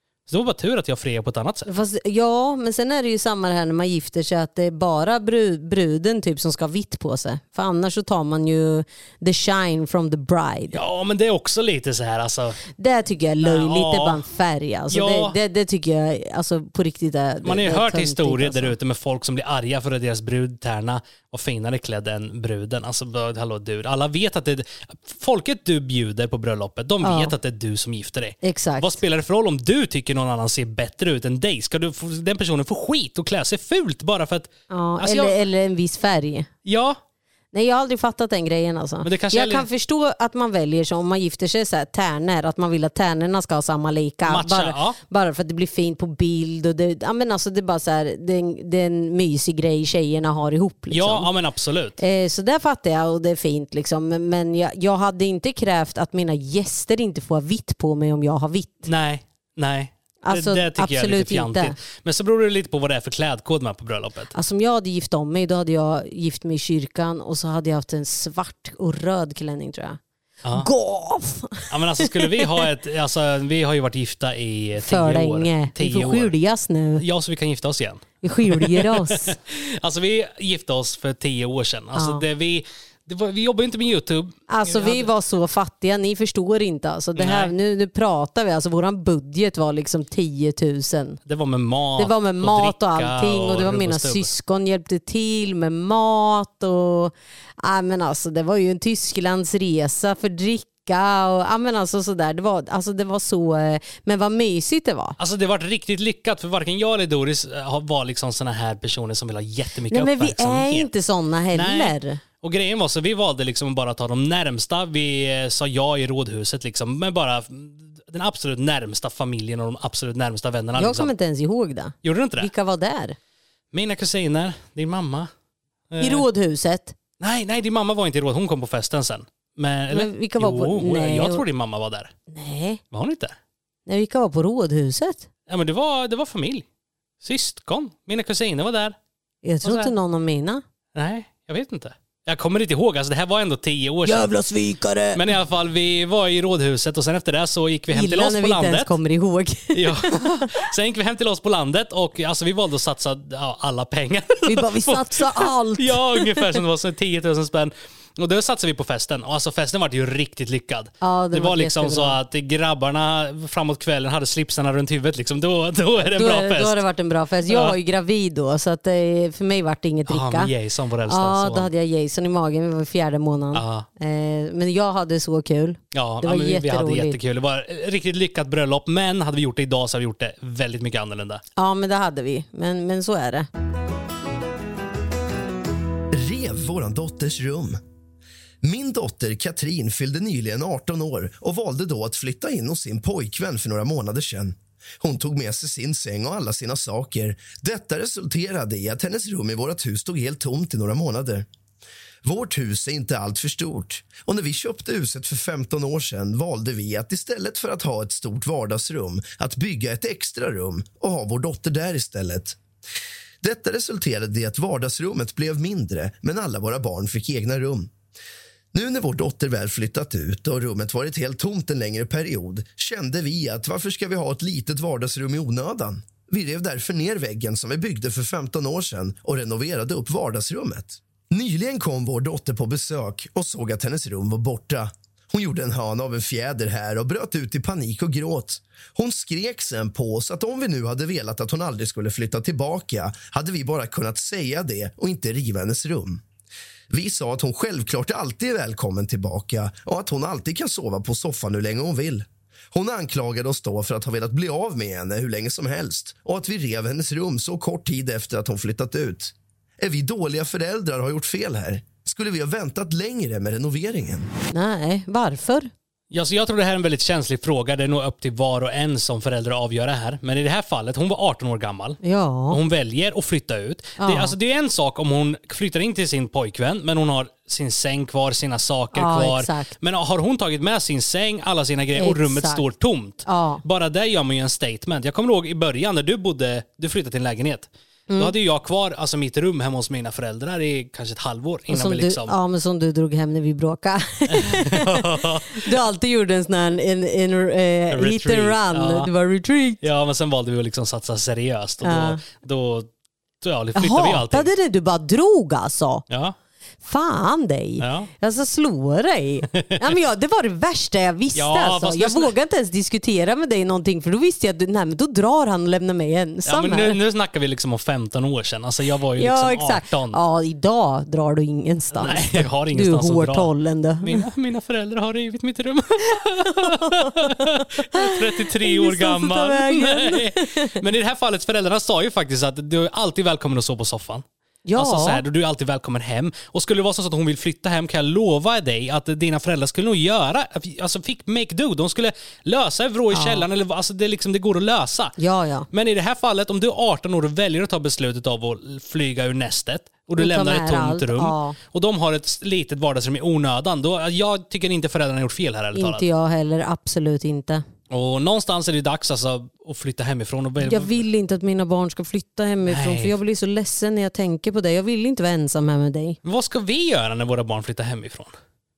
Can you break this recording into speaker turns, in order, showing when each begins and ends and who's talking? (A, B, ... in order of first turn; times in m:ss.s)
0:00.3-0:01.7 A
0:01.7-0:10.8 B
0:10.7-0:12.6 A
0:12.8-0:18.8 B
0:13.4-0:14.2 A
0:14.9-0:15.4 A
0:17.4-0:35.4 A
0:27.0-0:27.3 B
0:28.4-0:29.0 B
0:34.7-0:36.5 B
0:36.6-0:37.0 A
0:37.5-0:51.3 B
0:39.0-0:39.7 A
0:44.3-0:45.0 A
0:50.9-0:52.0 A
0:52.0-0:58.9 B
0:58.9-1:04.3 A
1:00.2-1:01.7 B
1:04.4-1:10.0 B
1:10.6-1:12.5 B
1:11.7-1:16.3 A
1:14.8-1:17.0 B
1:17.0-1:25.1 A
1:18.2-1:19.3 B
1:22.0-1:22.2 B
1:24.5-1:31.2 B
1:27.2-1:27.5 A
1:31.3-1:34.3 A
1:32.0-1:45.2 B
1:45.2-1:50.9 A
1:49.9-1:52.2 B
1:51.5-2:01.1 A
2:00.8-2:03.2 B
2:02.0-2:02.5 A
2:03.7-2:05.3 A
2:05.9-2:06.2 A
2:06.0-2:07.0 B
2:07.2-2:12.1 A
2:09.9-2:11.4 B
2:12.3-2:12.8 B
2:12.9-2:13.4 A
2:13.9-2:15.3 B
2:15.5-2:16.6 A
2:17.2-2:19.0 A
2:19.4-2:20.6 B
2:19.6-2:19.9 A
2:21.0-2:24.3 A
2:24.1-2:25.2 B
2:25.1-2:28.9 A
2:27.9-2:30.5 B
2:29.7-2:46.8 A
2:34.5-2:36.6 B
2:41.0-2:42.2 B
2:46.0-2:50.5 B
2:47.5-2:47.8 A
2:50.1-2:51.7 A
2:51.1-2:57.2 B
2:53.5-2:53.9 A
2:55.9-3:01.4 A
3:01.6-3:03.5 B
3:06.1-3:07.8 C
3:08.6-3:21.5 C
3:22.2-3:32.6 C
3:33.4-3:37.9 C
3:38.7-4:06.2 C
4:06.9-4:24.3 C
4:24.5-4:25.7 B
4:26.1-4:52.3 A
4:32.0-4:32.6 B
4:34.0-4:34.4 B
4:38.9-4:39.7 B
4:42.0-4:42.6 B
4:43.3-4:43.6 B
4:48.1-4:48.3 B
4:51.7-4:59.8 B
4:54.3-4:55.6 A
4:57.9-4:59.1 A
4:59.8-5:02.9 A
5:01.8-5:02.2 B
5:03.4-5:04.5 A
5:03.8-5:06.0 B
5:06.1-5:06.4 A
5:06.8-5:17.0 B
5:07.8-5:08.1 A
5:11.4-5:12.3 A
5:16.5-5:20.2 A
5:19.2-5:24.2 B
5:22.0-5:23.5 A
5:24.0-5:34.2 A
5:26.5-5:30.8 B
5:34.7-5:35.2 B
5:34.8-5:45.2 A
5:43.1-5:43.4 B
5:45.2-5:45.7 B
5:45.7-5:56.0 A
5:50.2-5:51.6 B
5:55.8-5:57.6 B
5:57.9-6:01.0 A
6:00.6-6:06.2 B
6:02.7-6:03.2 A
6:06.2-6:08.3 A